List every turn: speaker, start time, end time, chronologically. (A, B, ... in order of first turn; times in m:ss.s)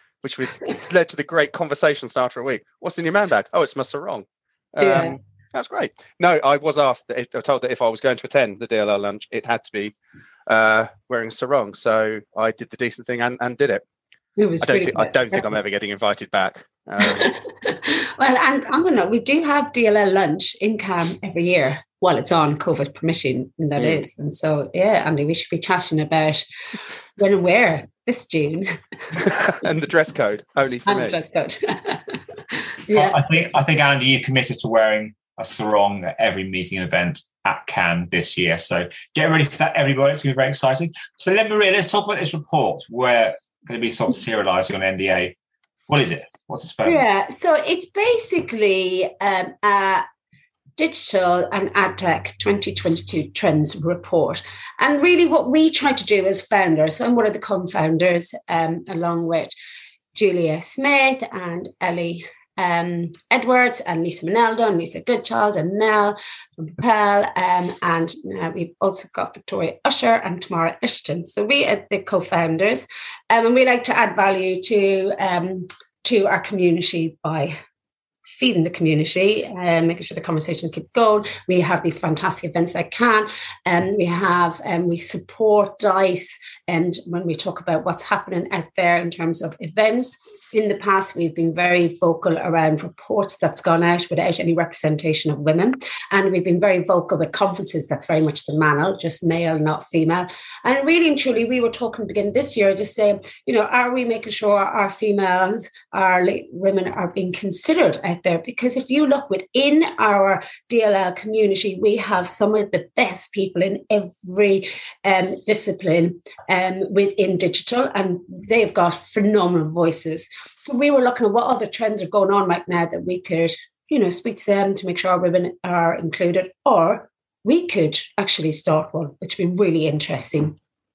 0:00.2-0:09.9 A
0:04.8-0:05.2 B
0:10.5-0:13.8 A
0:14.4-0:15.5 B
0:14.6-0:17.3 A
0:17.0-0:26.4 B
0:27.2-0:29.2 B
0:29.5-0:31.2 A
0:30.8-0:33.2 B
0:32.9-0:45.3 C
0:45.9-0:47.0 C
0:46.8-0:50.0 B
0:50.8-0:59.5 B
1:00.1-1:17.5 B
1:18.3-2:10.6 B